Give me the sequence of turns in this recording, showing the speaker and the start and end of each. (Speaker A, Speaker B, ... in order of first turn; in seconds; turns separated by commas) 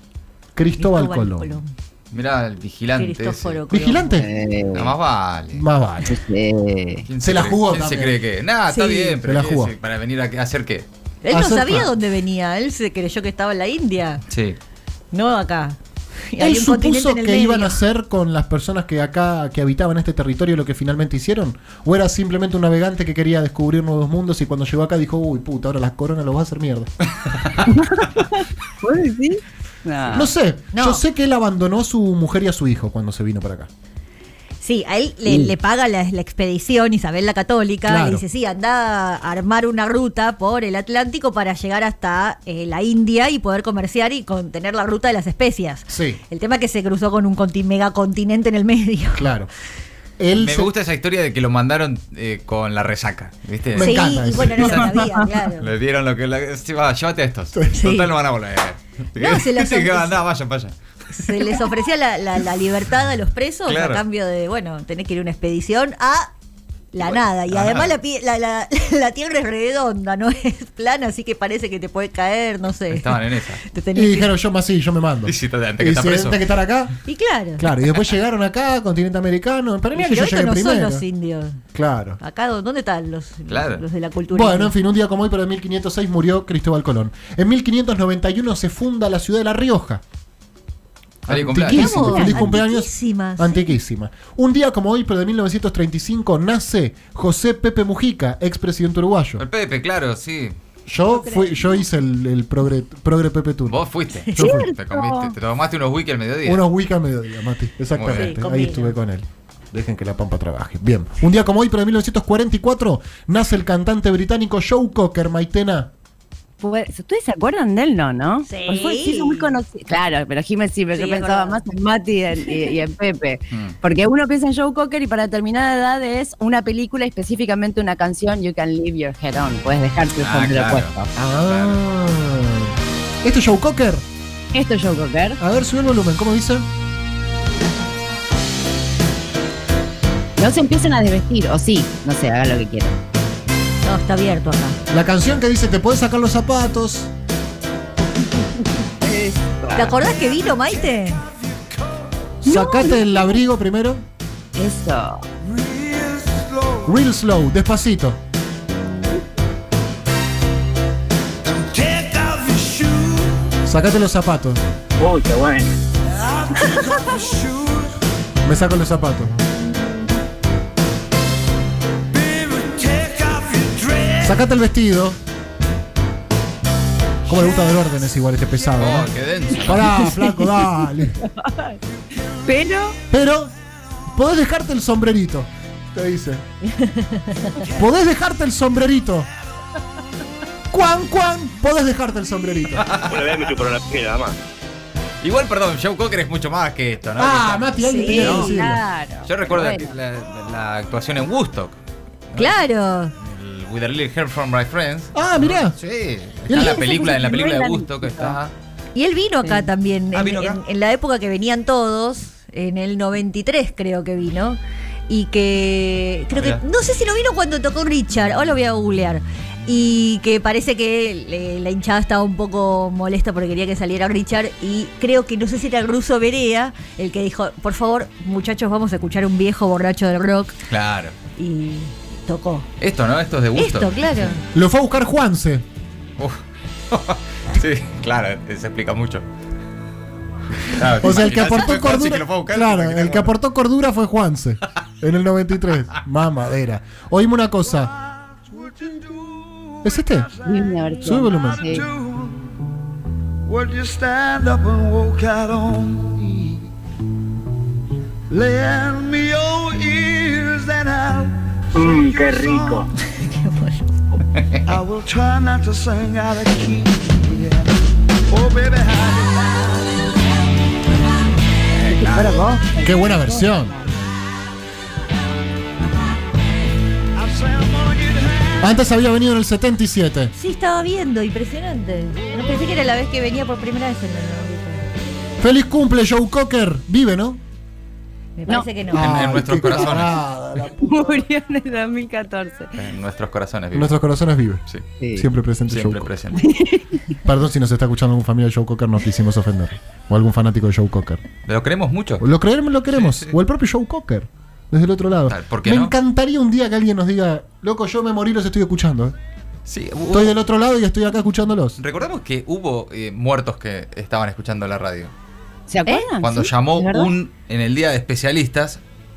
Speaker A: 0.6-1.6, Speaker B: 0.8-1.7, Speaker C: 2.1-3.6, Speaker B: 3.0-4.2, Speaker A: 3.7-4.3, Speaker D: 4.2-4.9, Speaker C: 4.7-5.7, Speaker A: 5.5-6.2, Speaker D: 6.1-7.0, Speaker C: 7.1-10.9, Speaker A: 7.2-8.2, Speaker B: 8.7-9.2, Speaker A: 9.2-9.7, Speaker B: 11.2-14.2, Speaker A: 11.3-11.9, Speaker C: 14.3-14.6, Speaker B: 15.1-15.8, Speaker B: 16.3-17.8, Speaker A: 16.4-26.9, Speaker D: 27.6-30.3, Speaker A: 30.1-33.7, Speaker B: 30.7-31.0, Speaker B: 34.6-49.3, Speaker A: 37.9-38.2, Speaker A: 45.9-46.2, Speaker A: 49.1-49.5, Speaker A: 50.2-50.7, Speaker C: 50.3-55.0, Speaker A: 53.7-54.9, Speaker B: 53.8-55.7, Speaker D: 54.9-55.2, Speaker C: 55.6-61.6, Speaker B: 57.7-58.1, Speaker B: 59.1-60.2, Speaker B: 61.2-66.3, Speaker C: 63.7-64.0, Speaker B: 66.9-74.3, Speaker C: 67.0-67.9, Speaker C: 72.9-73.6, Speaker A: 73.9-76.9, Speaker C: 75.2-76.4, Speaker B: 77.1-77.7, Speaker A: 77.6-81.0, Speaker B: 79.9-81.6, Speaker A: 81.7-82.2, Speaker B: 82.2-84.7, Speaker C: 83.5-83.8, Speaker A: 84.3-90.0, Speaker A: 91.2-99.4, Speaker C: 91.3-92.4, Speaker B: 91.7-93.7, Speaker C: 99.4-100.5, Speaker A: 100.9-104.7, Speaker D: 101.1-101.8, Speaker C: 103.7-106.6, Speaker D: 104.4-105.3, Speaker A: 106.4-115.9, Speaker C: 107.9-108.4, Speaker B: 108.1-108.9, Speaker D: 116.6-131.1, Speaker B: 118.5-119.6, Speaker B: 120.9-121.6, Speaker C: 130.2-130.9, Speaker A: 131.2-134.0, Speaker C: 131.5-131.8, Speaker D: 134.5-135.4, Speaker A: 135.4-136.7, Speaker D: 140.4-143.0, Speaker B: 143.8-144.8, Speaker A: 144.9-147.1, Speaker D: 149.0-149.9, Speaker E: 149.6-151.8, Speaker B: 149.7-151.2, Speaker A: 152.4-154.0, Speaker D: 152.5-153.0, Speaker D: 154.5-155.2, Speaker E: 155.4-156.9, Speaker A: 156.8-158.2, Speaker E: 161.4-163.5, Speaker A: 163.6-164.6, Speaker F: 165.0-165.7, Speaker E: 166.1-168.0, Speaker A: 168.4-169.3, Speaker E: 172.1-174.4, Speaker A: 174.2-175.2, Speaker A: 177.2-181.2, Speaker C: 178.8-180.0, Speaker D: 179.9-180.5, Speaker D: 181.2-181.8, Speaker D: 182.4-183.0, Speaker A: 183.1-183.5, Speaker A: 184.1-186.4, Speaker B: 186.7-187.6, Speaker A: 187.7-189.3, Speaker A: 190.7-192.9, Speaker C: 192.8-193.2, Speaker F: 193.0-194.4, Speaker C: 195.2-198.6, Speaker A: 197.2-198.8, Speaker B: 197.8-198.5, Speaker D: 198.0-199.9, Speaker C: 199.2-201.8, Speaker C: 202.3-202.6, Speaker B: 202.3-203.1, Speaker C: 203.2-208.5, Speaker A: 205.1-205.8, Speaker A: 206.5-206.8, Speaker D: 206.5-208.4, Speaker B: 208.9-230.6, Speaker C: 210.1-210.6, Speaker C: 216.3-216.6, Speaker C: 230.7-231.1, Speaker B: 231.4-232.7, Speaker C: 232.8-233.9, Speaker B: 233.6-234.4, Speaker A: 234.5-235.6, Speaker C: 236.2-239.2, Speaker C: 240.7-243.3, Speaker A: 240.8-247.9, Speaker E: 247.8-252.5, Speaker A: 249.8-250.3, Speaker D: 250.4-251.9, Speaker A: 251.0-251.7, Speaker E: 253.4-256.2, Speaker A: 256.2-256.6, Speaker E: 258.3-262.9, Speaker F: 261.7-262.9, Speaker B: 263.1-263.9, Speaker E: 264.6-267.8, Speaker E: 268.3-269.9, Speaker C: 271.7-272.5, Speaker D: 271.9-273.9, Speaker A: 272.8-273.7, Speaker E: 277.1-278.7, Speaker A: 278.6-280.3, Speaker B: 280.4-284.9, Speaker A: 285.4-287.4, Speaker B: 288.4-289.2, Speaker A: 288.9-291.2, Speaker C: 288.9-290.2, Speaker D: 290.7-292.7, Speaker C: 292.8-293.9, Speaker A: 293.7-294.6, Speaker D: 295.0-295.3, Speaker A: 295.1-296.1, Speaker C: 295.7-296.5, Speaker D: 296.4-297.1, Speaker A: 297.2-301.2, Speaker C: 301.4-302.2, Speaker A: 302.2-309.1, Speaker C: 302.9-303.3, Speaker C: 305.3-305.9, Speaker C: 309.7-310.4, Speaker A: 310.1-311.8, Speaker C: 311.8-315.1, Speaker D: 315.7-317.1, Speaker C: 316.2-318.8